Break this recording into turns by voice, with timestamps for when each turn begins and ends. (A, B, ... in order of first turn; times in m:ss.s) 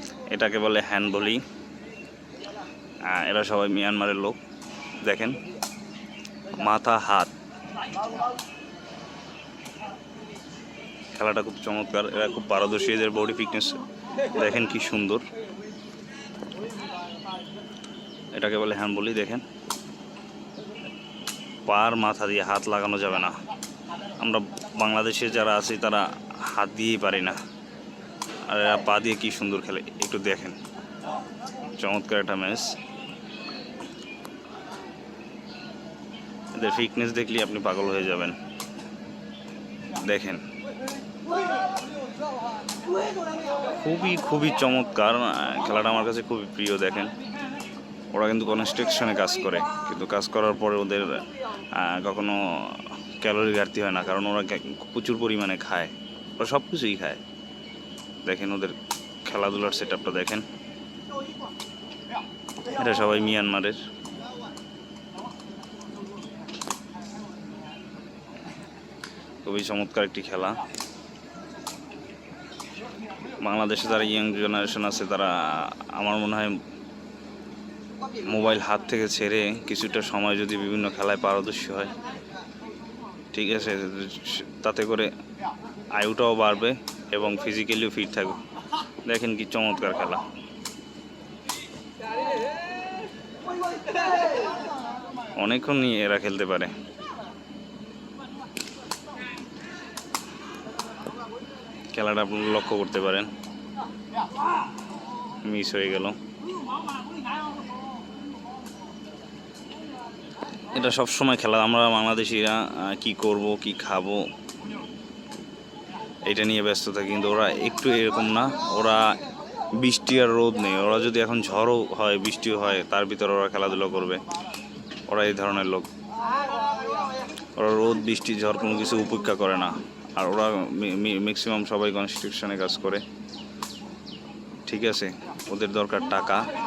0:00.3-0:01.4 A
0:03.0-0:04.4 A
0:05.0-0:05.4 A
0:06.5-0:07.3 A
0:11.1-0:15.2 A
0:18.3-0:19.4 A
0:21.6-0:23.4 A
0:24.2-0:27.4 A
0:28.5-0:30.6 A
0:31.8-0:32.8 A
0:36.5-0:38.4 A
0:40.0-0:40.4 A
0:43.8-0:47.1 A
0:48.1-0:57.2 A
0:58.2-1:00.4 A
1:02.8-1:03.8 A
1:09.4-1:10.6 A
1:13.4-1:16.6 A
1:18.2-1:21.9 A
1:23.3-1:25.1 A
1:26.0-1:28.4 A
1:29.0-1:30.2 A
1:35.4-1:36.7 A
1:41.9-1:43.3 A
1:45.4-1:46.2 A
1:50.7-1:54.2 A
1:56.2-1:59.2 A
1:59.7-2:04.2 A
2:05.1-2:05.8 A
2:07.6-2:13.0 A
2:14.7-2:16.5 A